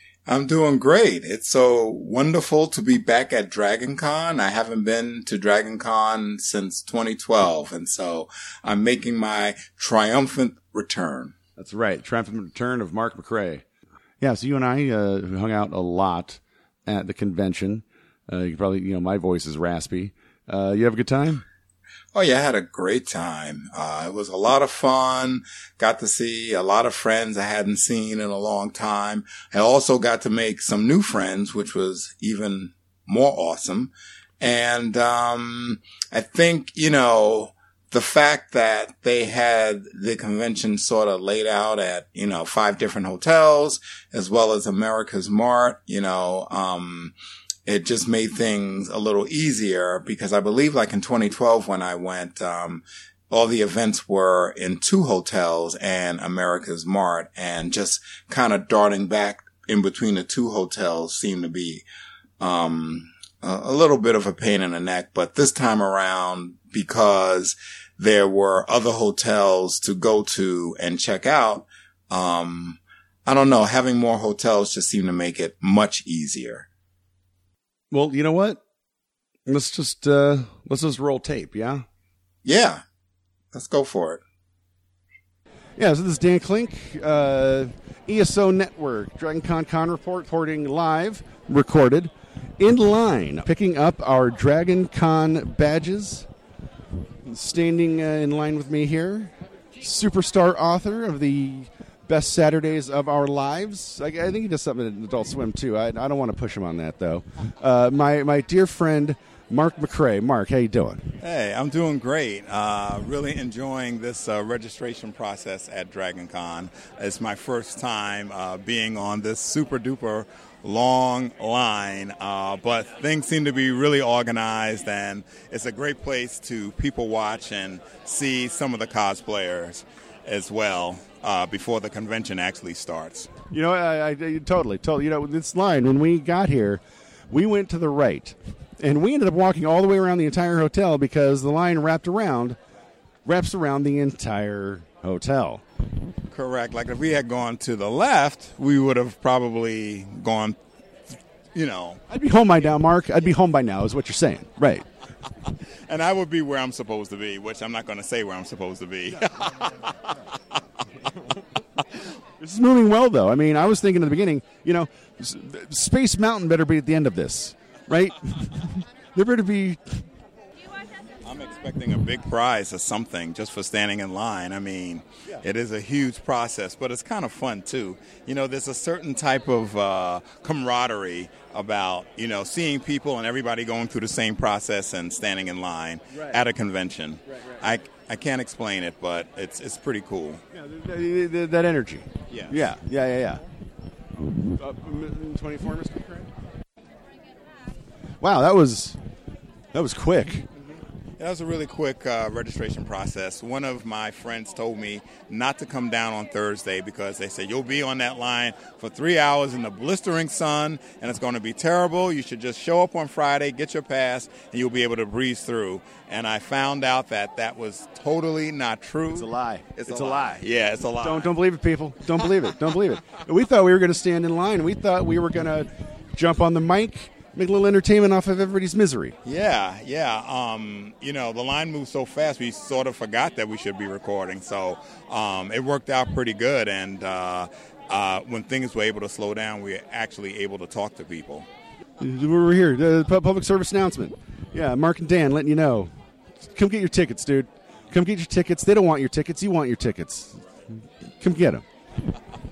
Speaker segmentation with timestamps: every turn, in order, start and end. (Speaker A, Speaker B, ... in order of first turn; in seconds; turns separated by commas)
Speaker A: 0.3-11.3, Speaker B: 11.6-13.6, Speaker B: 14.2-21.4, Speaker A: 22.1-47.1, Speaker A: 47.7-61.8, Speaker A: 62.4-76.7, Speaker B: 77.9-78.6, Speaker B: 79.5-81.8, Speaker A: 82.4-82.8, Speaker A: 83.5-84.2, Speaker B: 85.8-96.3, Speaker B: 97.2-111.1, Speaker A: 111.2-133.3, Speaker B: 133.5-142.6, Speaker B: 143.2-145.6, Speaker A: 146.3-150.6, Speaker A: 151.5-152.0, Speaker B: 152.1-154.8, Speaker A: 155.9-159.7, Speaker B: 162.4-170.0, Speaker A: 171.2-190.4, Speaker B: 186.1-186.4, Speaker B: 190.5-193.4, Speaker A: 192.3-192.7, Speaker B: 194.6-196.3, Speaker B: 198.2-199.0, Speaker B: 199.7-200.5, Speaker A: 201.2-221.3, Speaker B: 219.1-220.4, Speaker B: 221.0-229.2, Speaker A: 229.2-241.5, Speaker B: 242.0-245.9, Speaker B: 246.4-251.6